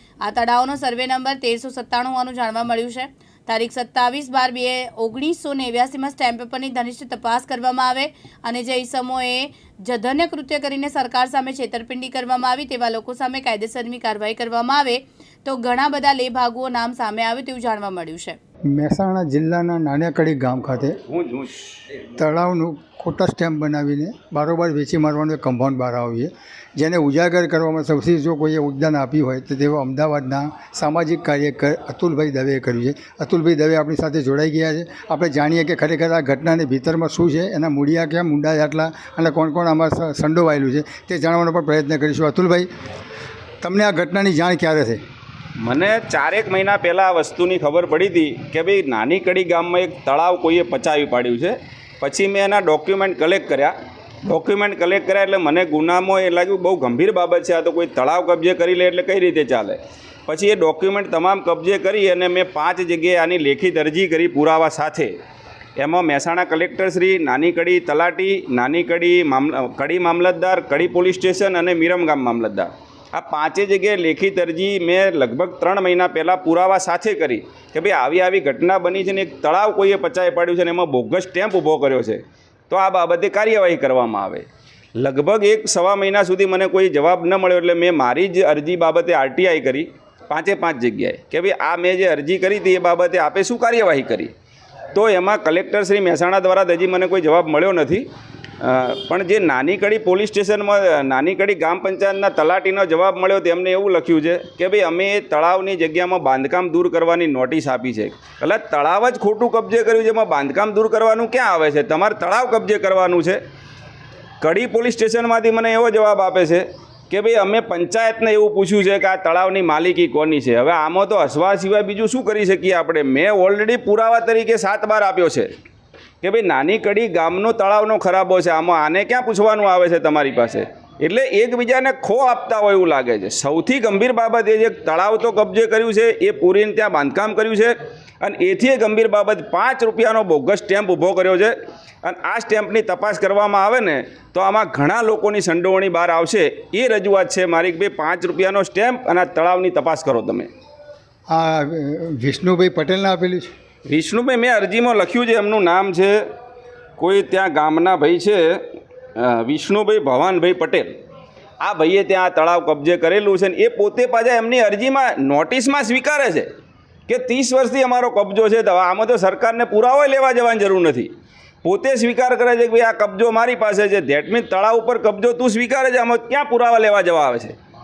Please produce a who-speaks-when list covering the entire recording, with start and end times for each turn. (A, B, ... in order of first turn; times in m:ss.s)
0:00.2-0:18.4 A
0:18.7-0:21.0 B
0:21.1-0:21.6 C
0:22.2-0:42.7 B
0:43.6-0:45.0 B
0:45.6-0:53.7 C
0:54.2-1:05.2 C
1:05.8-1:34.3 C
1:34.9-1:38.1 C
1:38.6-1:53.4 C
1:54.4-2:05.5 C
2:06.2-2:30.5 C
2:31.3-2:33.5 B
2:33.9-2:36.1 C
2:37.0-2:38.6 C
2:39.2-2:40.9 C
2:41.6-2:46.5 C
2:47.1-2:51.1 C
2:51.6-2:57.5 C